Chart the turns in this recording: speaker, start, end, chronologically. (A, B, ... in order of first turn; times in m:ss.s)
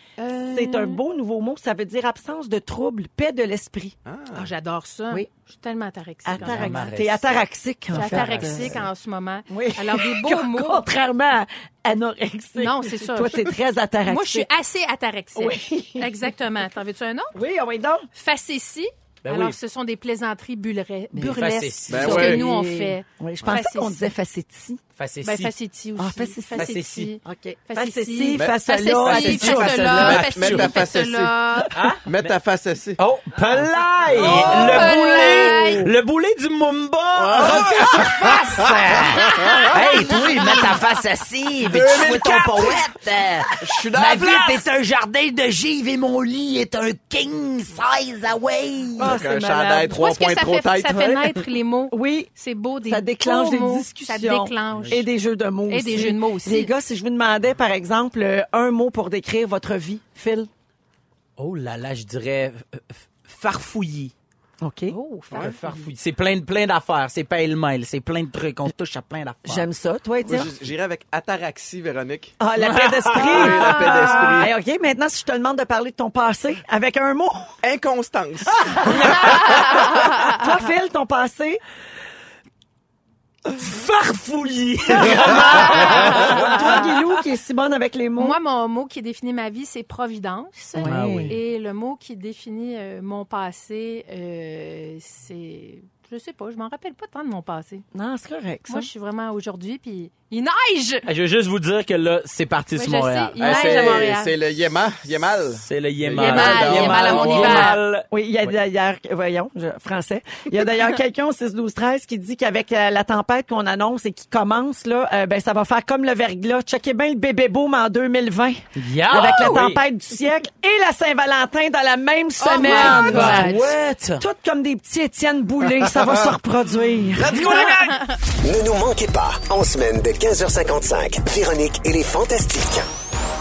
0:00.2-0:01.0 A
0:00.5-0:04.0 B
0:04.0-0:04.5 C
0:04.3-0:07.0 A
0:06.2-0:08.8 B
0:06.4-0:07.4 D
0:07.9-0:10.8 A
0:07.9-0:08.7 D
0:09.5-0:14.5 B
0:12.6-0:13.5 A
0:14.1-0:17.4 A
0:15.3-0:16.3 B
0:17.3-0:18.1 B
0:18.1-0:24.1 A
0:19.2-0:19.6 D
0:21.1-0:21.4 B
0:21.3-0:22.4 D
0:21.9-0:22.4 C
0:22.0-0:24.8 B
0:25.0-0:25.5 D
0:25.2-0:31.8 A
0:26.0-0:30.2 B
0:26.5-0:27.1 D
0:28.3-0:28.6 C
0:29.0-0:30.8 D
0:29.6-0:33.0 C
0:31.7-0:32.3 D
0:33.0-0:49.2 D
0:34.1-0:34.9 C
0:34.2-0:35.9 A
0:34.2-0:35.8 B
0:37.2-0:38.3 C
0:37.3-0:40.0 B
0:39.2-0:39.7 C
0:41.6-0:42.8 C
0:42.0-0:42.4 B
0:43.6-0:44.6 C
0:49.0-0:49.9 B
0:49.0-0:51.3 C
0:49.8-0:55.1 A
0:51.9-0:52.3 B
0:52.8-1:00.5 B
0:54.7-0:55.0 D
0:55.7-0:56.7 A
1:01.4-1:04.1 D
1:04.6-1:05.0 B
1:04.9-1:05.9 A
1:05.3-1:09.6 D
1:09.4-1:10.5 B
1:10.2-1:12.4 C
1:12.4-1:17.6 B
1:12.6-1:13.4 D
1:13.1-1:14.5 C
1:13.2-1:14.5 A
1:17.6-1:20.2 C
1:18.8-1:21.6 B
1:23.5-1:27.0 D
1:25.0-1:28.4 B
1:25.4-1:26.8 A
1:28.2-1:37.8 A
1:30.8-1:31.4 B
1:30.8-1:31.4 D
1:37.9-1:38.9 B
1:38.7-1:41.1 A
1:41.0-1:44.1 D
1:42.7-1:44.3 A
1:43.4-1:47.7 C
1:45.6-1:48.5 D
1:46.2-1:47.8 A
1:47.4-2:03.6 B
1:58.8-1:59.8 D
2:02.4-2:03.7 A
2:02.6-2:04.2 D
2:04.2-2:07.5 B
2:07.2-2:08.0 D
2:07.2-2:08.0 C
2:08.3-2:12.8 E